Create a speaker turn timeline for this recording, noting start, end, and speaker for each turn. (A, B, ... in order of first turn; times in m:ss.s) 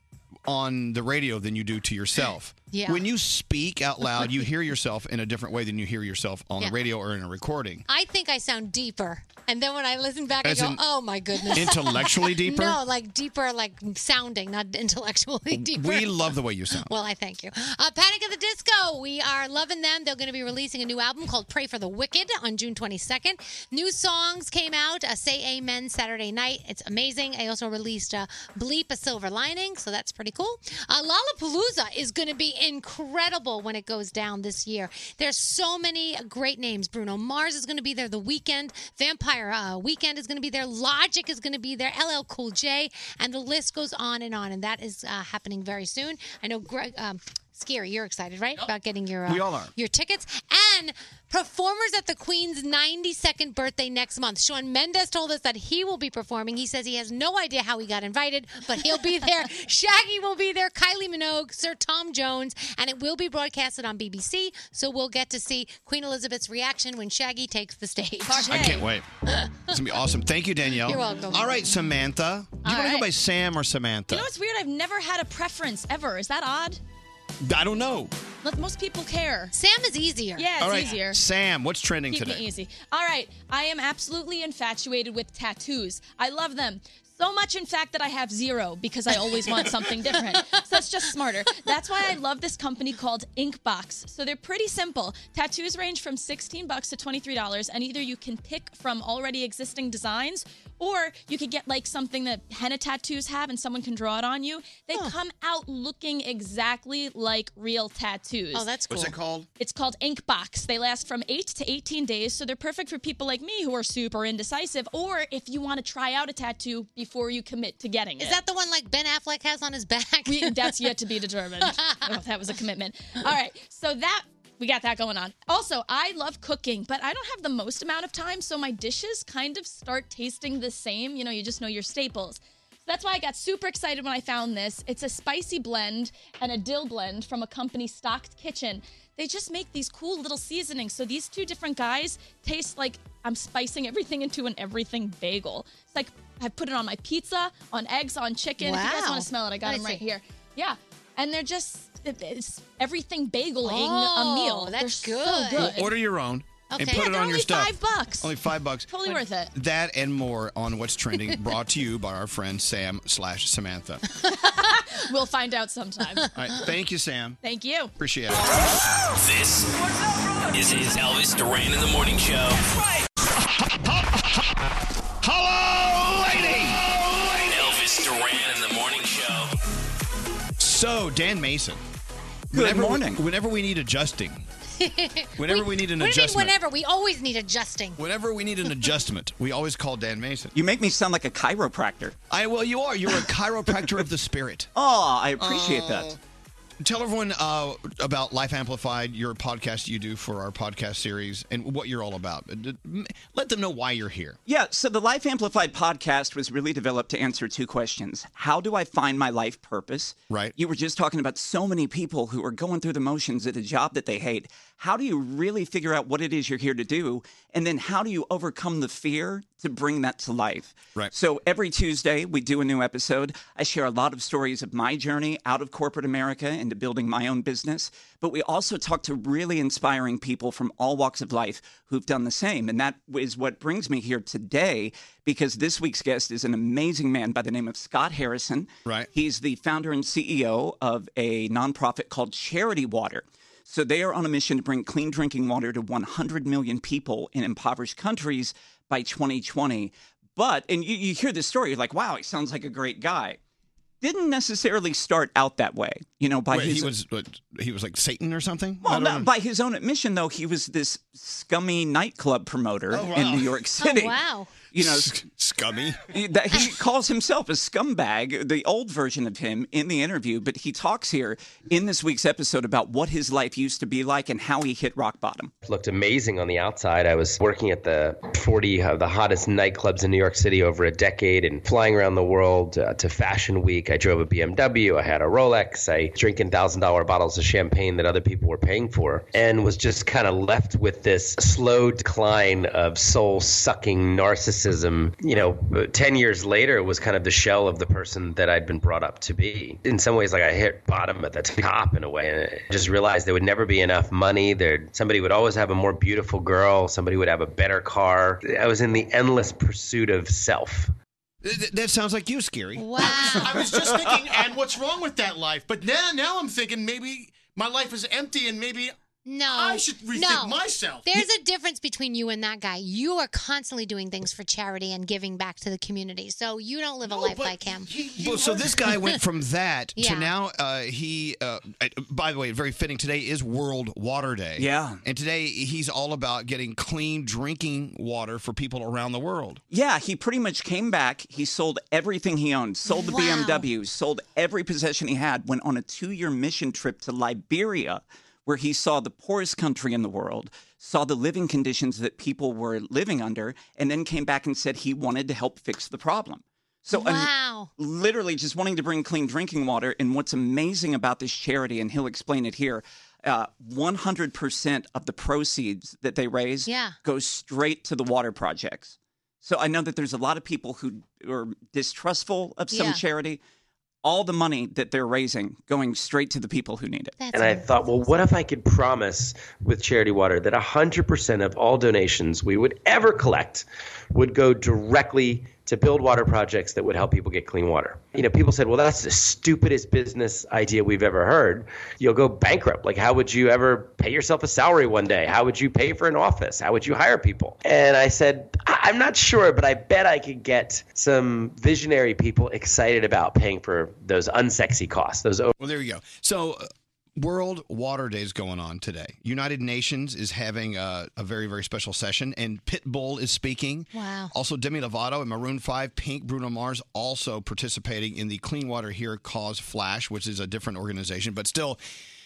0:00.5-0:07.9 A
0:02.7-0:03.0 B
0:07.9-1:09.6 B
0:10.4-0:10.8 A
0:11.4-0:12.8 A
0:15.5-0:16.9 A
0:49.3-0:49.7 A
1:08.3-1:08.9 C
1:08.5-1:09.1 A
1:09.7-1:14.3 A
1:10.8-1:11.6 B
1:12.6-1:13.1 C
1:14.1-1:16.8 C
1:17.4-1:18.1 A
1:18.4-1:19.5 C
1:19.5-1:20.8 B
1:20.4-1:21.2 C
1:20.6-1:22.4 A
1:22.1-1:48.7 C
1:48.5-1:49.2 B
1:48.9-1:49.5 A
1:49.6-1:58.4 C
1:58.2-2:00.9 B
2:00.3-2:35.9 C
2:01.6-2:02.1 B
2:28.6-2:30.0 B
2:33.6-2:35.8 B
2:35.6-2:38.9 A
2:36.7-2:37.3 B
2:36.9-2:38.3 C
2:38.9-2:39.5 C
2:39.5-2:44.0 A
2:44.3-2:46.3 C
2:46.4-2:47.4 A
2:47.4-2:47.9 C
2:48.0-2:48.5 A
2:49.1-2:49.7 D
2:50.5-2:52.6 D
2:55.2-2:56.8 A
2:57.4-2:59.5 D
3:00.6-3:01.8 A
3:02.5-3:04.4 A
3:02.5-3:03.2 E
3:04.8-3:08.0 B
3:05.4-3:06.6 A
3:08.0-3:10.5 A
3:10.6-3:12.2 E
3:12.3-3:14.7 A
3:14.8-3:16.1 E
3:15.4-3:16.2 A
3:16.8-3:24.4 A
3:24.5-4:13.4 E
3:30.3-3:30.5 A
4:14.0-4:16.9 E
4:16.5-4:19.3 A
4:18.8-4:24.2 E
4:22.9-4:23.6 A
4:23.8-4:24.5 B
4:24.7-4:25.1 E
4:24.8-4:26.0 A
4:26.1-4:35.5 E
4:35.6-5:10.9 F
5:11.4-5:13.5 A
5:12.8-5:13.7 B
5:13.0-5:18.9 G
5:19.3-5:27.9 B
5:19.5-5:21.3 G
5:27.1-5:28.7 G
5:28.2-5:39.6 A
5:30.0-5:30.3 B
5:34.6-5:35.0 E
5:39.7-6:13.4 E
5:42.9-5:43.7 B
5:56.9-5:57.7 B
6:06.7-6:07.0 B
6:12.7-6:13.0 B
6:14.0-6:17.2 E
6:17.2-6:18.2 B
6:17.3-6:45.5 F
6:45.6-7:01.8 A
6:53.9-6:54.3 B